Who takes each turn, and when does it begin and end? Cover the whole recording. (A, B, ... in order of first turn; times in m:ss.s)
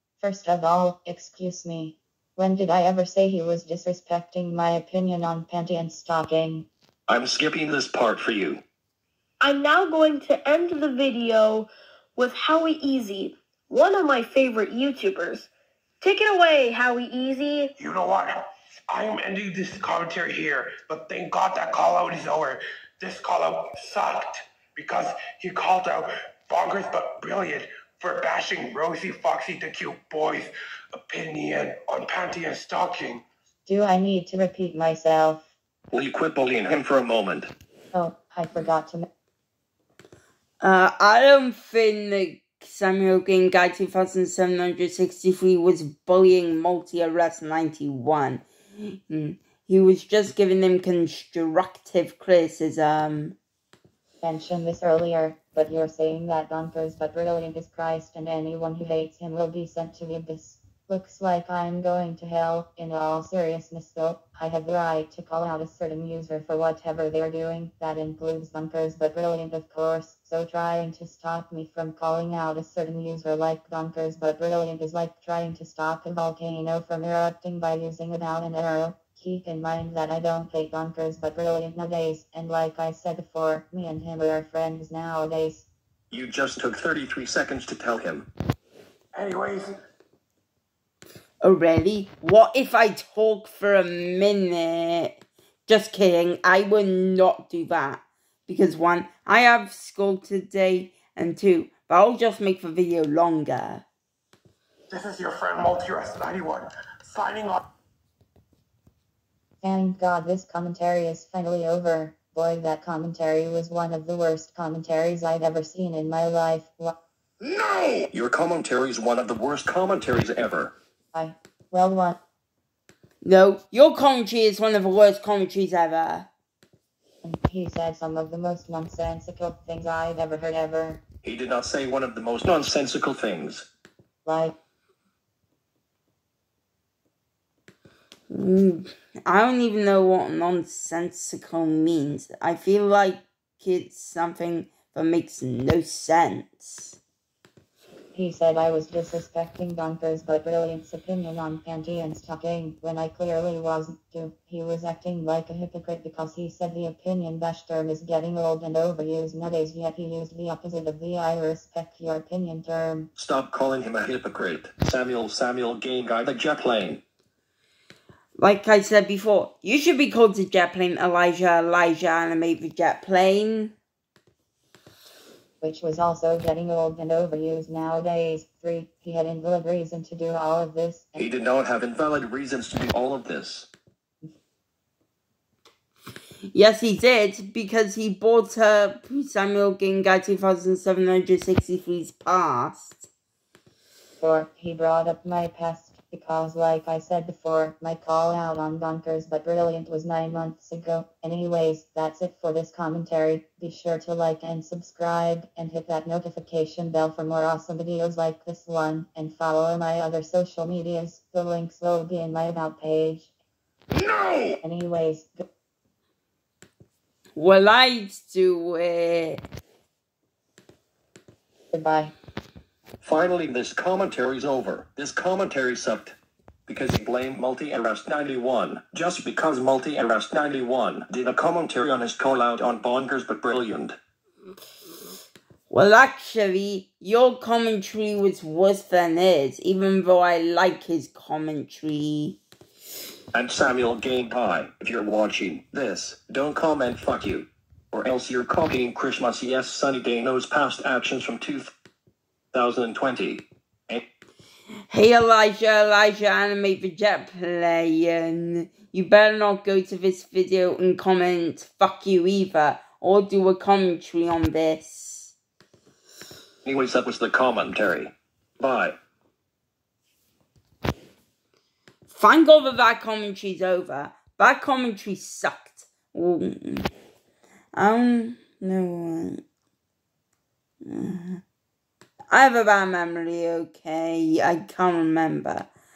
0:00.2-0:06.7 A
0:07.1-0:08.6 B
0:09.4-0:15.5 C
0:16.0-0:17.7 C
0:17.8-0:33.2 D
0:33.6-0:35.5 A
0:35.9-0:37.5 B
0:37.9-0:39.0 A
0:40.6-0:53.4 E
0:54.2-1:25.7 A
1:26.1-1:28.3 B
1:29.1-1:29.8 D
1:31.4-1:43.8 E
1:44.9-1:47.6 D
1:49.6-1:57.0 A
1:58.1-2:00.7 B
2:01.1-2:02.2 A
2:03.2-2:06.3 E
2:07.2-2:11.0 A
2:11.2-2:13.6 B
2:14.2-2:14.5 A
2:18.3-2:27.0 E
2:28.1-2:43.1 A
2:43.2-2:47.0 B
2:48.4-2:53.7 E
2:55.6-3:01.3 A
3:01.2-3:03.7 B
3:06.5-3:13.0 E
3:14.2-3:33.3 A
3:34.6-3:35.4 A
3:37.4-3:39.4 E
3:41.7-3:42.1 A
3:43.0-3:46.1 B
3:46.7-3:54.0 B
3:55.7-4:02.4 E
4:03.3-4:11.7 B
4:12.5-4:14.0 B
4:14.9-4:25.3 E
4:26.6-4:29.0 B
4:32.1-4:36.9 E
4:37.7-4:39.4 E
4:40.8-4:41.4 E
4:42.3-4:45.7 E